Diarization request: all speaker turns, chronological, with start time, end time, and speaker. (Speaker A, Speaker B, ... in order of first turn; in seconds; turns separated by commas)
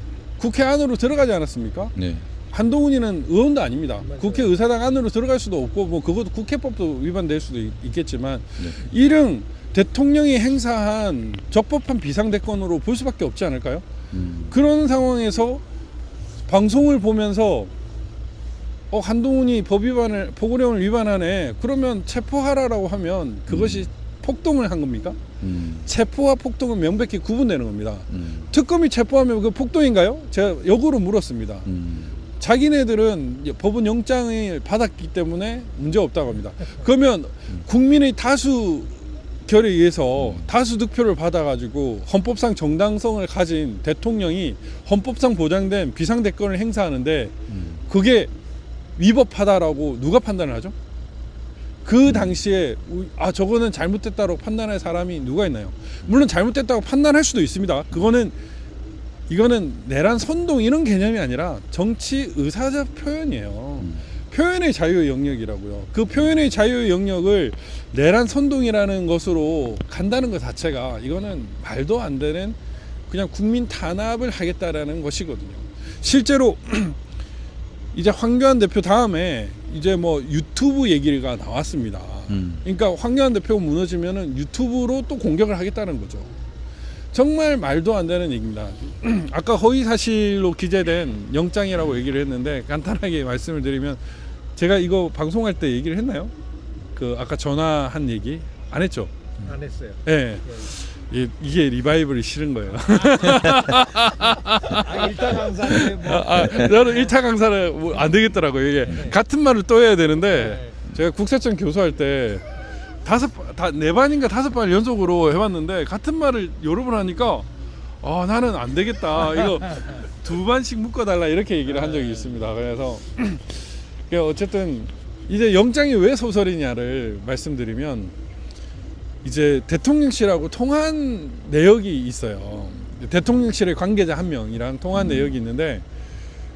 Speaker A: 0.4-1.9, Speaker B: 1.9-2.2, Speaker A: 2.5-13.8, Speaker C: 4.0-4.5, Speaker B: 14.1-14.6, Speaker A: 14.5-15.6, Speaker A: 16.5-17.7, Speaker A: 18.9-25.2, Speaker B: 23.5-23.9, Speaker B: 25.4-25.9, Speaker A: 25.9-31.7, Speaker B: 28.1-28.5, Speaker B: 31.6-32.1, Speaker A: 32.4-48.3, Speaker B: 40.2-40.5, Speaker B: 47.5-47.8, Speaker A: 49.0-50.7, Speaker A: 51.8-58.4, Speaker B: 52.0-52.3, Speaker A: 59.3-72.6, Speaker A: 73.1-77.0, Speaker A: 77.9-86.3, Speaker B: 82.3-82.6, Speaker A: 87.1-94.0, Speaker A: 94.5-96.3, Speaker A: 96.9-99.1, Speaker C: 99.4-100.7, Speaker A: 100.0-112.4, Speaker C: 102.9-103.4, Speaker C: 104.2-107.1, Speaker C: 108.8-109.2, Speaker C: 110.3-110.7, Speaker A: 113.0-117.5, Speaker A: 118.0-128.1, Speaker C: 121.7-122.3, Speaker A: 129.2-135.8, Speaker B: 134.9-135.3